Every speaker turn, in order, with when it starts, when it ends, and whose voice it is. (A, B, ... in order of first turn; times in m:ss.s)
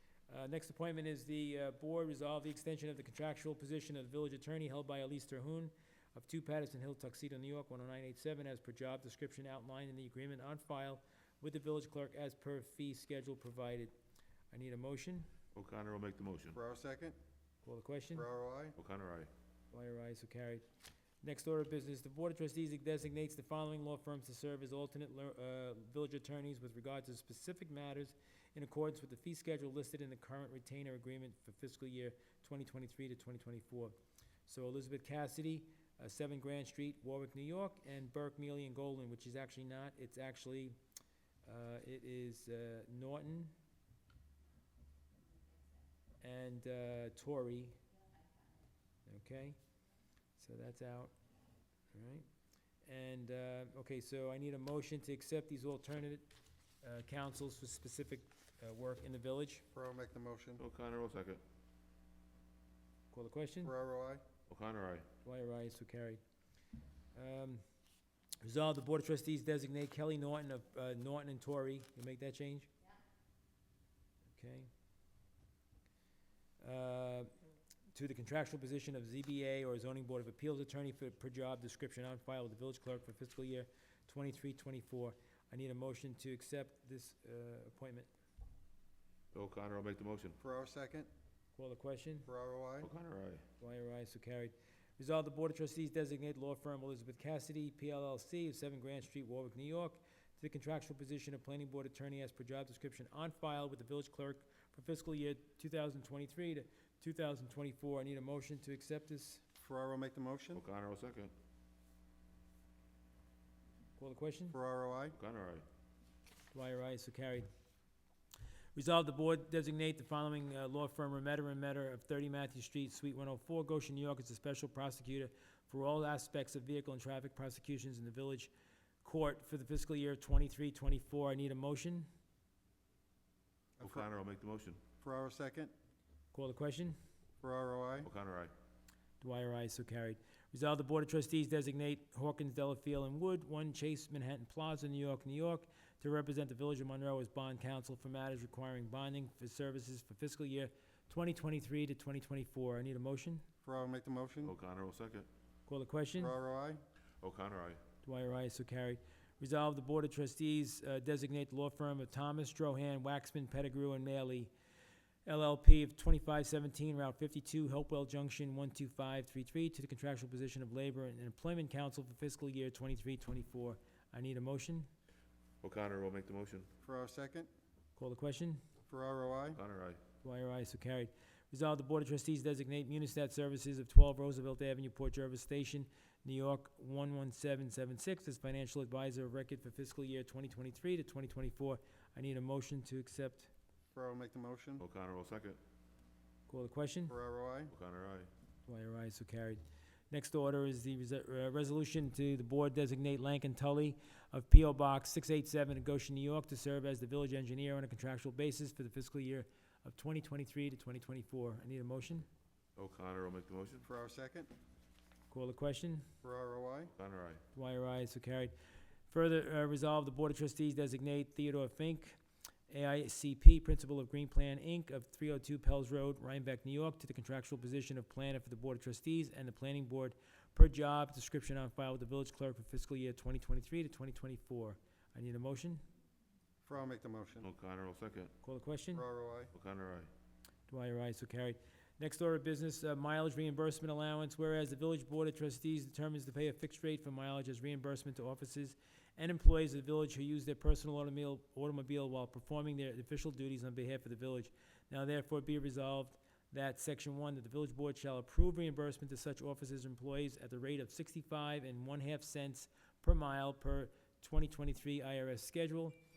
0:00.3-0:13.9 A
0:14.5-0:15.3 A
0:15.5-0:16.6 B
0:16.5-0:17.2 C
0:17.6-0:18.3 A
0:18.1-0:18.8 C
0:18.8-0:19.3 B
0:19.7-0:20.6 A
0:21.2-0:33.9 A
0:34.5-0:40.8 A
0:41.4-0:43.5 A
0:46.2-0:47.8 A
0:49.1-0:49.6 A
0:50.4-0:51.1 A
0:51.9-0:52.3 A
0:52.8-0:56.3 A
0:56.8-0:59.6 A
0:59.7-1:00.6 C
1:00.6-1:01.4 B
1:03.1-1:03.7 A
1:03.6-1:04.2 C
1:04.5-1:05.1 B
1:05.2-1:06.2 A
1:07.1-1:07.6 A
1:08.4-1:12.7 A
1:14.3-1:14.7 A
1:16.6-1:17.3 A
1:17.9-1:28.1 A
1:29.3-1:30.4 B
1:30.4-1:31.1 C
1:31.5-1:32.3 A
1:32.2-1:32.9 C
1:32.8-1:33.4 B
1:33.6-1:49.4 A
1:49.6-1:50.6 C
1:50.5-1:51.3 B
1:54.0-1:54.6 A
1:54.5-1:55.2 C
1:55.1-1:55.6 B
1:56.5-1:57.5 A
1:58.7-2:08.5 A
2:09.0-2:12.1 A
2:13.8-2:14.0 C
2:13.8-2:14.8 B
2:15.0-2:15.7 C
2:16.3-2:17.0 A
2:17.4-2:18.1 C
2:18.0-2:18.5 B
2:19.2-2:33.4 A
2:33.6-2:34.5 C
2:34.4-2:35.3 B
2:35.7-2:36.4 A
2:36.2-2:36.8 C
2:37.2-2:37.8 B
2:38.0-2:44.5 A
2:45.2-2:54.9 A
2:55.6-2:56.7 B
2:56.8-2:57.5 C
2:58.0-2:58.6 A
2:58.9-2:59.6 C
2:59.5-3:00.0 B
3:00.2-3:13.5 A
3:13.9-3:14.8 C
3:14.8-3:15.6 B
3:16.5-3:17.1 A
3:17.1-3:17.7 C
3:17.7-3:18.3 B
3:18.7-3:32.3 A
3:32.8-3:33.8 B
3:33.8-3:34.5 C
3:35.3-3:36.0 A
3:36.2-3:36.9 C
3:36.9-3:37.4 B
3:37.5-3:38.5 A
3:39.1-3:42.2 A
3:42.7-3:55.8 A
3:56.6-3:57.5 C
3:57.4-3:58.3 B
3:58.4-3:59.0 A
3:58.9-3:59.5 C
3:59.5-4:00.1 B
4:00.7-4:26.0 A